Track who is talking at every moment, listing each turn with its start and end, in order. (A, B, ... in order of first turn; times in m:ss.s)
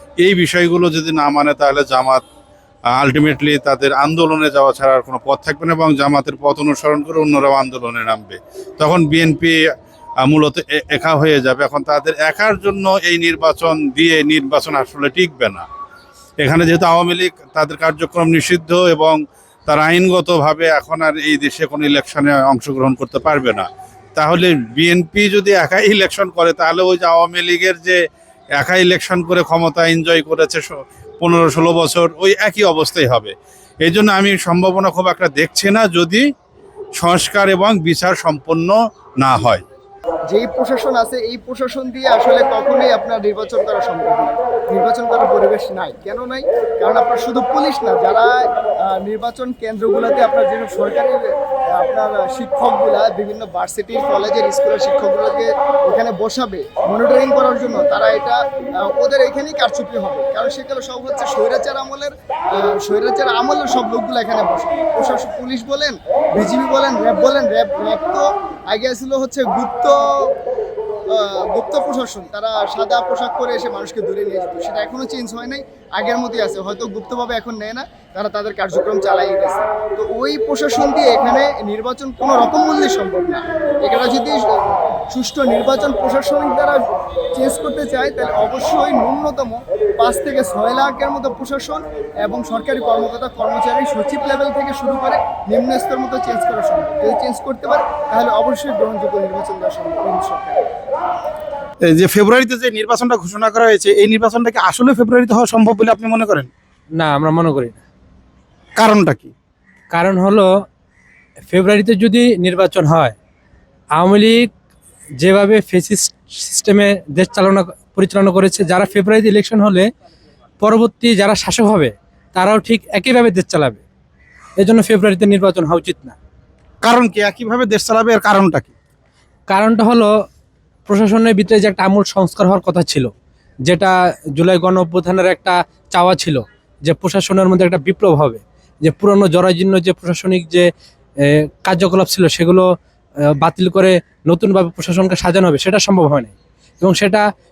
0:00.2-0:02.2 A
0:03.0-0:09.6 A
0:10.2-0:15.6 A
0:16.4-0:28.0 A
0:28.6-0:36.2 A
0:37.0-0:39.6 A
0:40.3-0:51.2 B
0:51.7-1:10.0 B
1:11.1-1:24.6 B
1:25.1-1:26.8 B
1:27.3-1:40.8 B
1:41.8-1:46.5 C
1:47.0-1:47.8 D
1:48.8-1:49.3 C
1:49.9-1:50.5 D
1:51.5-1:53.2 D
1:54.0-1:54.5 D
1:55.2-1:59.9 D
2:00.6-2:03.8 D
2:04.6-2:06.2 D
2:06.8-2:08.7 C
2:09.5-2:10.1 D
2:10.9-2:13.1 D
2:13.7-2:20.7 D
2:21.2-2:22.7 D
2:23.3-2:27.3 D